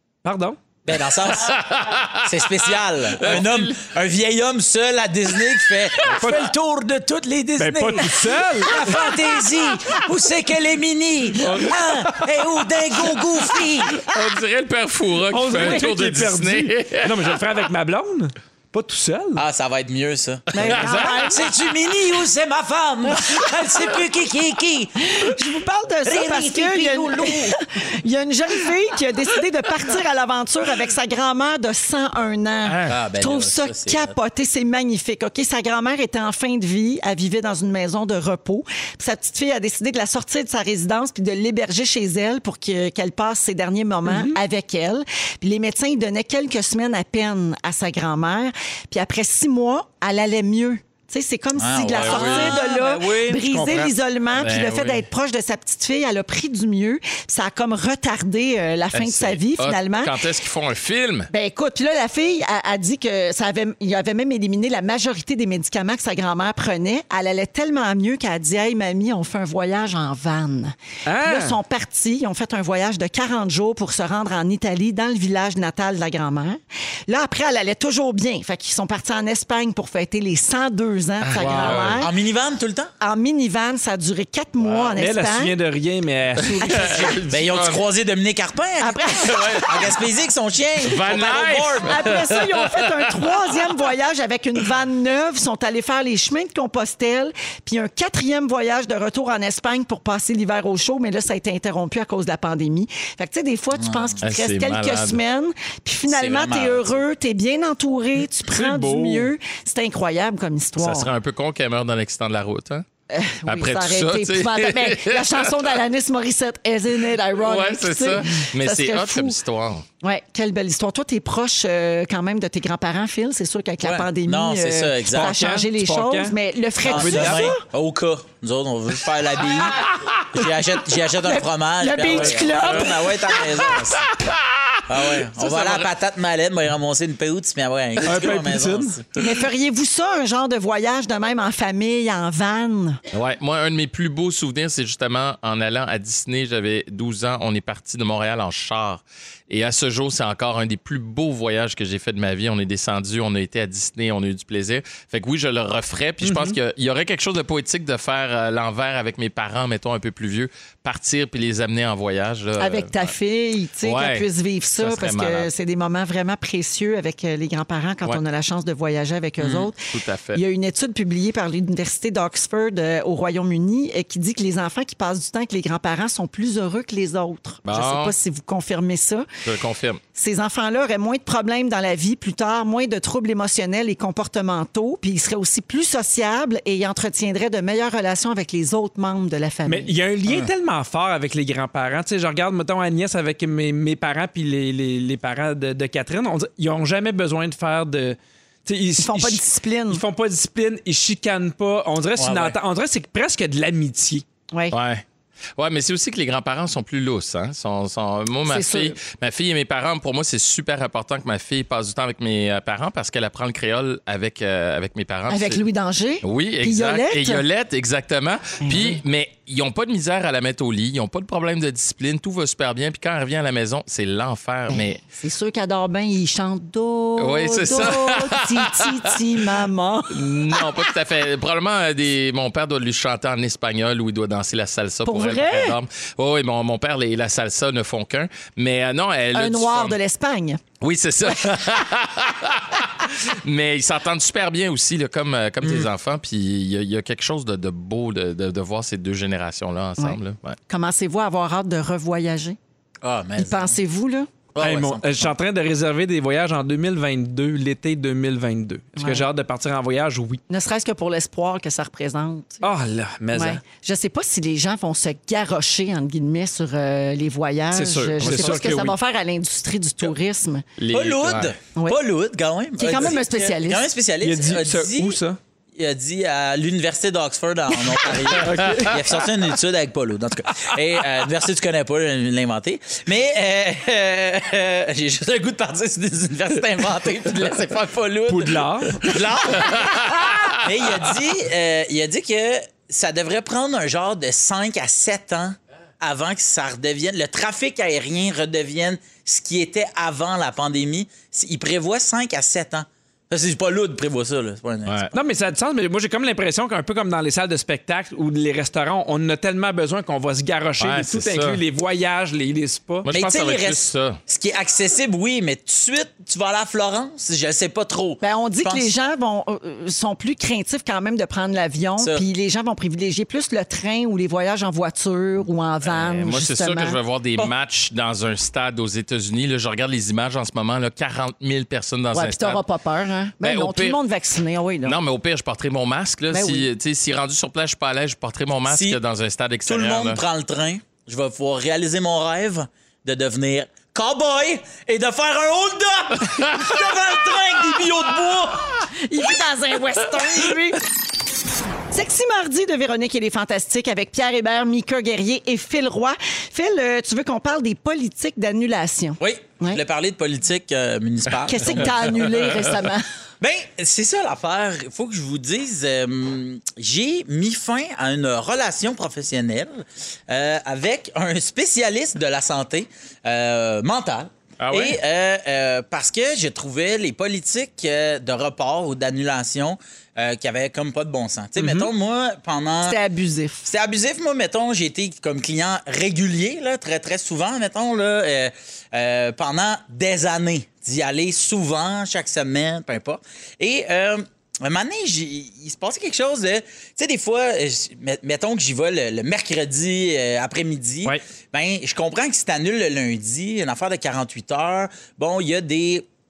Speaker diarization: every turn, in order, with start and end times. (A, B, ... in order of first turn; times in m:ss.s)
0:00.2-0:00.6 A
0:00.9-0:01.7 B
0:01.2-0:03.9 C
0:02.2-0:14.0 B
0:05.3-0:06.2 C
0:06.1-0:06.4 A
0:07.6-0:09.1 A
0:08.9-0:09.2 C
0:11.4-0:11.8 A
0:13.1-0:17.4 C
0:15.3-0:19.4 A
0:19.4-0:25.0 B
0:20.5-0:21.5 D
0:20.6-0:21.2 C
0:25.0-1:00.1 D
0:26.0-0:27.6 B
0:32.6-0:33.0 C
0:32.9-0:34.1 B
0:44.1-0:44.4 A
0:51.6-0:53.8 B
0:51.9-0:52.6 C
0:53.5-0:53.9 A
0:54.3-0:55.1 C
0:58.9-1:01.3 C
1:01.3-1:22.1 D
1:11.1-1:11.6 A
1:21.2-1:22.1 C
1:21.4-1:21.8 A
1:22.0-1:22.9 B
1:23.0-1:25.6 D
1:24.6-1:24.9 C
1:25.0-1:26.7 A
1:26.4-1:27.2 D
1:26.5-1:27.9 C
1:27.3-1:32.1 B
1:28.8-1:29.7 D
1:29.2-1:29.9 C
1:30.8-1:33.6 C
1:31.8-1:51.1 D
1:43.8-1:44.2 B
1:44.2-1:45.2 C
1:46.1-1:47.0 B
1:48.5-1:49.3 A
1:50.8-1:52.8 C
1:53.1-1:59.4 D
1:53.5-1:55.8 C
1:57.4-1:59.8 C
2:00.0-2:07.6 D
2:03.8-2:05.3 B
2:05.1-2:07.5 A
2:06.8-2:14.1 B
2:11.2-2:13.1 D
2:12.0-2:15.9 C
2:14.9-2:19.0 B
2:18.0-2:19.0 A
2:19.2-2:23.0 D
2:23.1-2:43.1 C
2:36.2-2:36.6 A
2:42.6-2:49.8 D
2:43.8-2:45.5 C
2:49.4-2:50.4 C
2:50.3-2:59.3 D
2:57.6-2:58.2 C
2:59.4-3:00.0 C
3:00.2-3:09.9 D
3:09.7-3:24.2 A
3:19.0-3:20.0 D
3:22.2-3:22.6 B
3:24.5-3:24.8 D
3:24.7-3:25.0 C
3:25.6-3:35.6 C
3:28.5-3:29.0 D
3:35.3-3:37.4 D
3:36.2-3:45.0 C
3:38.6-3:39.0 D
3:44.7-3:50.8 D
3:47.2-3:49.2 C
3:50.1-4:00.0 C
3:55.0-3:55.8 D
3:59.3-4:00.6 D
4:00.8-4:10.6 C
4:05.6-4:05.9 B
4:10.0-4:12.6 D
4:13.0-4:13.7 B
4:13.4-4:14.3 D
4:14.5-4:15.3 B
4:14.6-4:20.4 A
4:19.0-4:19.3 D
4:20.5-4:22.6 D
4:22.6-4:23.6 A
4:23.3-4:30.6 D
4:27.7-4:28.9 A
4:28.2-4:28.9 C
4:30.8-4:31.5 C
4:30.9-4:35.2 B
4:32.8-4:33.8 D
4:34.2-4:35.4 A
4:35.8-4:50.0 B
4:38.4-4:39.1 A
4:38.5-4:38.9 C
4:48.3-4:49.1 A
4:49.6-4:50.7 C
4:50.6-5:05.1 B
5:04.9-5:05.1 C
5:05.1-5:13.1 A
5:10.8-5:11.6 C
5:13.0-5:14.2 C
5:13.1-5:18.9 B
5:18.2-5:27.0 D
5:22.0-5:22.2 B
5:25.8-5:32.6 C
5:32.1-5:35.0 D
5:33.4-5:34.0 C
5:34.8-5:40.2 C
5:36.3-5:36.7 D
5:38.7-5:39.0 B
5:39.6-5:48.8 B
5:48.9-5:50.8 D
5:51.9-5:59.8 D
5:59.2-6:02.2 B
6:01.5-6:03.0 D
6:02.3-6:02.7 C
6:03.4-6:23.0 B
6:14.6-6:15.0 C
6:21.6-6:21.9 A
6:22.9-6:23.7 D
6:23.6-6:46.1 B